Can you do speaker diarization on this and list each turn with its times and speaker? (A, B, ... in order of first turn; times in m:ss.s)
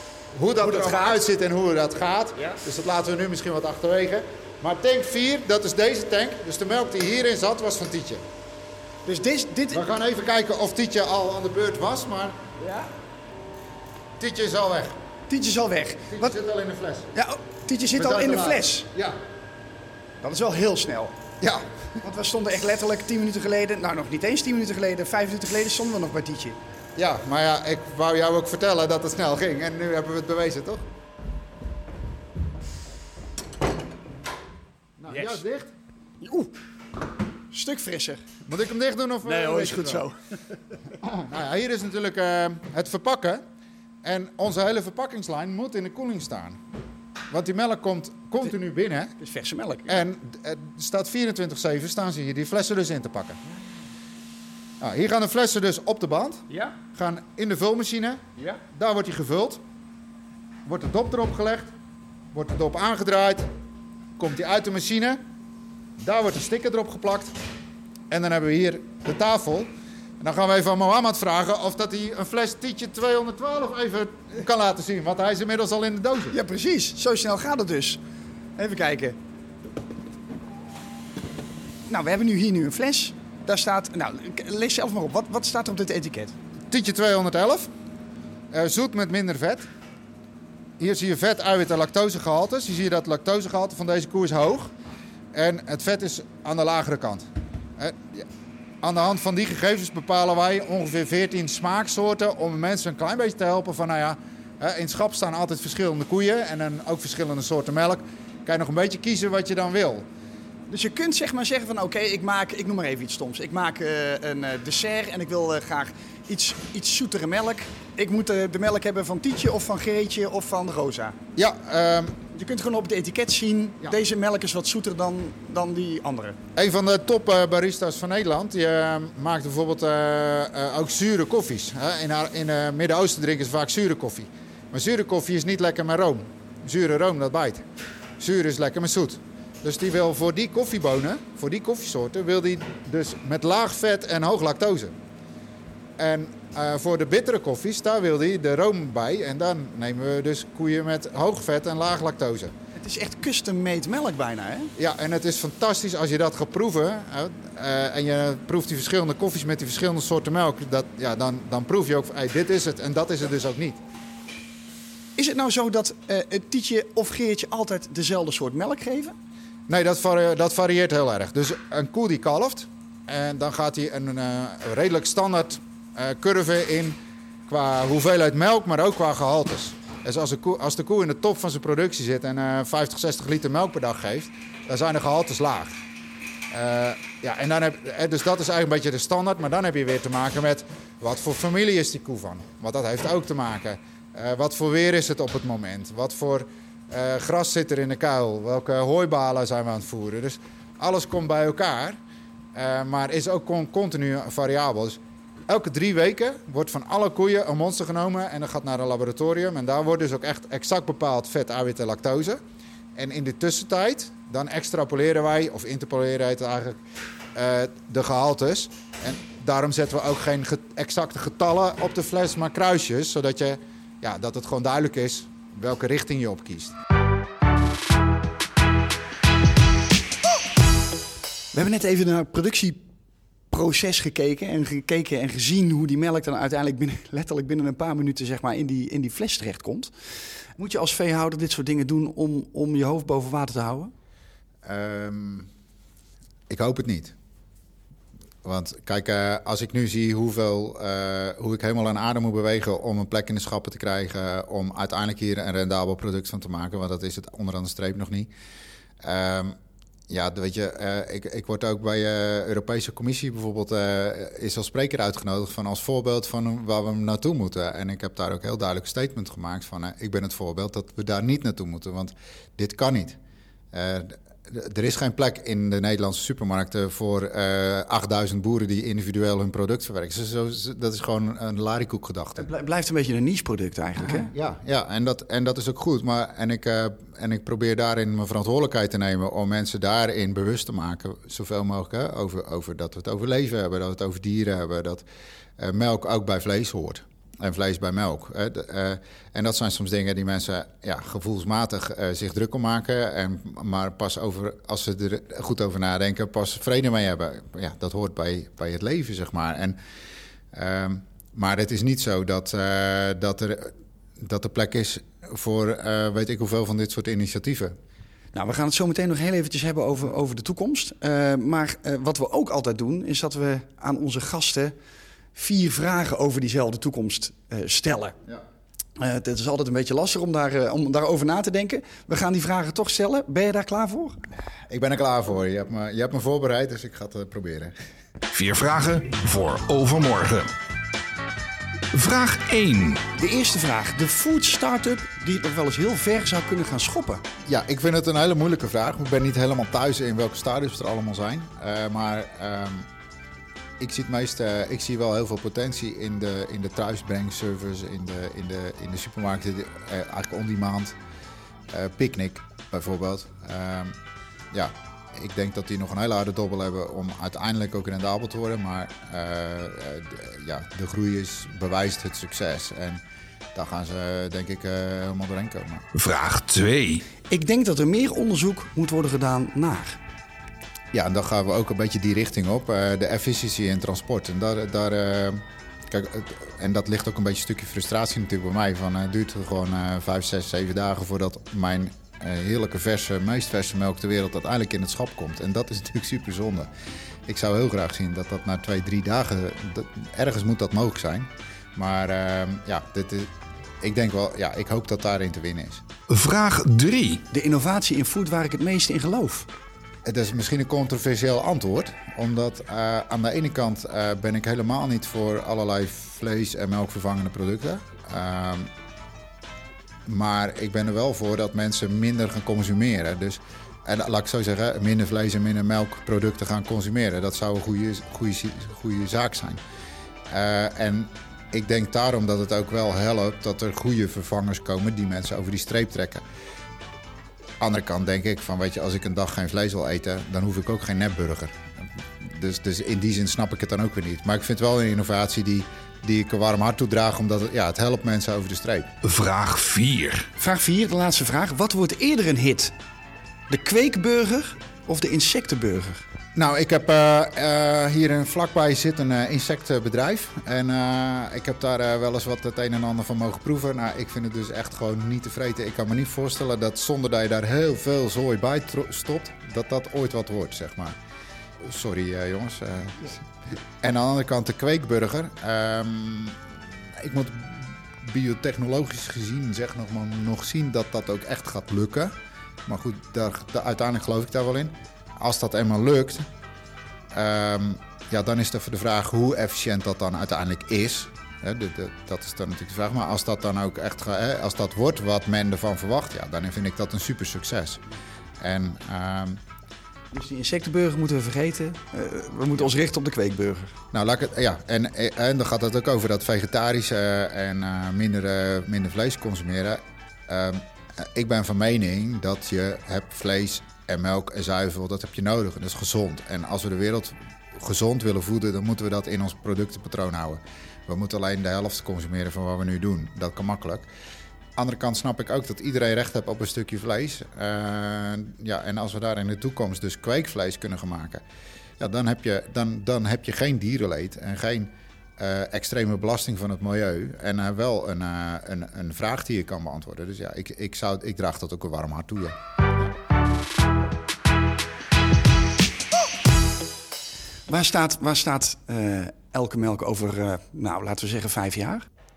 0:00.3-0:08.2 A
0:00.6-0:01.2 B
0:09.0-0:09.8 B
0:09.7-0:12.4 A
0:12.6-0:12.9 B
0:14.2-0:15.0 A
0:15.3-0:16.4 B
0:16.1-0:17.1 A
0:17.2-0:18.9 B
0:18.0-0:19.2 A
0:20.2-0:21.1 B
0:21.4-0:21.9 A
0:22.0-0:26.6 B
0:27.0-0:30.9 A
0:35.0-0:35.7 A
0:35.1-0:35.4 B
0:36.2-0:36.5 B
0:37.5-0:38.2 B
0:38.5-0:40.1 A
0:39.2-0:40.2 B
0:40.9-0:43.4 A
0:44.0-0:46.6 A
0:47.3-0:49.1 A
0:49.2-0:50.0 B
0:49.9-0:53.4 A
0:54.8-0:59.6 A
0:56.5-0:56.8 B
1:00.7-1:01.7 A
1:02.3-1:03.5 A
1:04.2-1:05.2 A
1:06.0-1:07.4 A
1:08.1-1:16.4 A
1:16.3-1:18.0 B
1:18.6-1:19.2 B
1:21.9-1:26.4 B
1:26.7-1:27.7 A
1:28.5-1:29.7 A
1:30.8-1:34.7 A
1:35.3-1:38.3 A
1:38.8-1:50.1 A
1:50.7-2:01.2 B
2:01.4-2:02.2 A
2:02.3-2:06.4 B
2:06.6-2:17.7 A
2:18.2-2:25.0 A
2:26.0-2:32.6 A
2:32.8-2:34.7 B
2:34.8-2:43.8 A
2:45.2-2:49.2 B
2:49.7-3:05.8 A
3:06.5-3:22.0 A
3:22.5-3:32.4 A
3:33.0-3:36.8 A
3:37.4-3:46.8 A
3:51.5-3:52.8 B
3:53.5-3:59.9 B
4:00.6-4:03.9 B
4:04.6-4:05.5 A
4:06.5-4:07.2 A
4:08.4-4:18.3 A
4:19.0-4:19.6 A
4:20.1-4:33.2 A
4:33.7-4:42.5 A
4:42.4-4:44.3 B
4:44.2-4:55.0 A
4:55.6-5:09.8 A
5:10.5-5:17.8 A
5:18.3-5:24.8 B
5:25.3-5:28.2 B
5:29.0-5:34.2 B
5:34.7-5:37.7 A
5:38.3-5:40.5 C
5:41.9-5:43.0 C
5:43.2-5:47.2 B
5:47.5-5:52.9 A
5:53.8-6:01.0 A
6:01.7-6:04.0 A
6:04.5-6:13.0 A
6:13.5-6:15.9 A
6:15.9-6:17.0 C
6:17.3-6:20.0 B
6:20.9-6:36.7 A
6:37.3-6:45.8 A
6:46.1-6:47.2 C
6:47.2-6:49.5 B
6:50.1-6:58.7 A
7:00.1-7:09.6 A
7:10.3-7:16.2 A
7:17.6-7:28.9 A
7:29.0-7:30.3 C
7:30.4-7:32.7 B
7:33.5-7:36.0 B
7:36.4-7:51.0 A
7:51.6-7:53.3 A
7:53.8-8:02.1 A
8:02.7-8:06.3 A
8:07.1-8:17.8 A
8:18.4-8:19.4 A
8:20.1-8:23.7 B
8:23.9-8:43.9 A
8:44.6-8:51.2 A
8:51.8-9:02.9 A
9:07.5-9:11.9 B